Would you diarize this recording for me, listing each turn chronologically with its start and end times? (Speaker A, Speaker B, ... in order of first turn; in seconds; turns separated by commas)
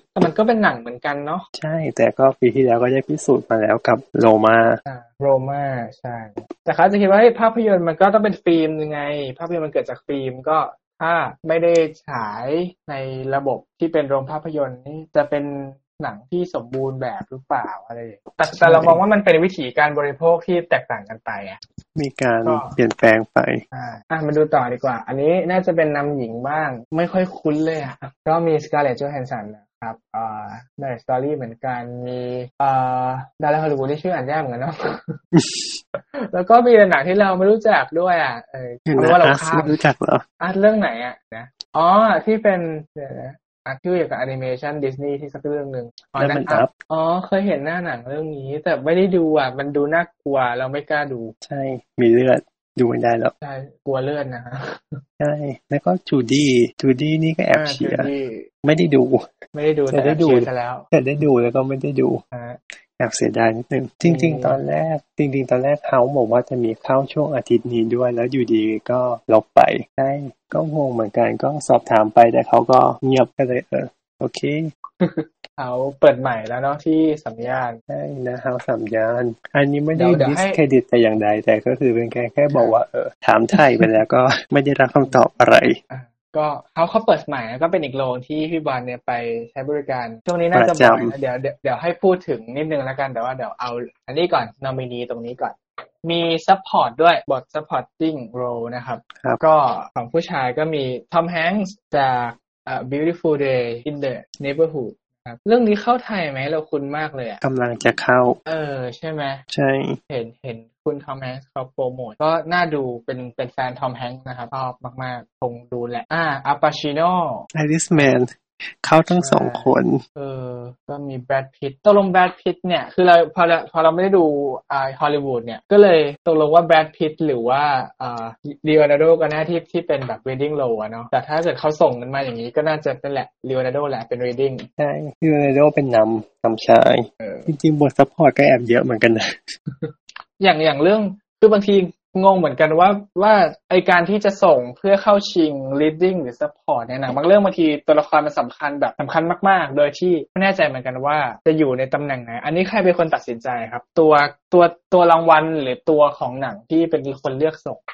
Speaker A: 0.2-1.4, Speaker B: 1.6-4.8, Speaker A: 4.8-21.6, Speaker B: 18.6-19.0, Speaker B: 22.0-23.6, Speaker A: 22.4-22.8, Speaker A: 23.7-35.2, Speaker B: 35.3-35.8, Speaker A: 36.0-39.8, Speaker B: 38.9-40.2, Speaker A: 40.4-51.3, Speaker B: 46.2-46.7, Speaker B: 51.4-53.3, Speaker A: 53.4-55.0, Speaker B: 55.2-58.1, Speaker A: 57.5-58.5, Speaker B: 58.6-59.3, Speaker A: 59.5-60.9, Speaker B: 59.9-62.2, Speaker A: 62.3-62.6, Speaker B: 63.0-74.7, Speaker A: 64.0-64.6, Speaker A: 75.0-77.8, Speaker B: 77.9-85.8, Speaker A: 80.0-80.6, Speaker A: 82.5-82.8, Speaker A: 83.6-83.9, Speaker A: 85.0-85.3, Speaker A: 85.9-107.4, Speaker B: 90.5-91.1, Speaker B: 107.4-108.4, Speaker A: 108.5-109.4, Speaker B: 109.5-110.0, Speaker A: 110.1-118.1, Speaker B: 117.5-120.0, Speaker A: 119.1-134.7, Speaker B: 134.8-139.6, Speaker A: 137.2-137.5, Speaker A: 139.7-157.8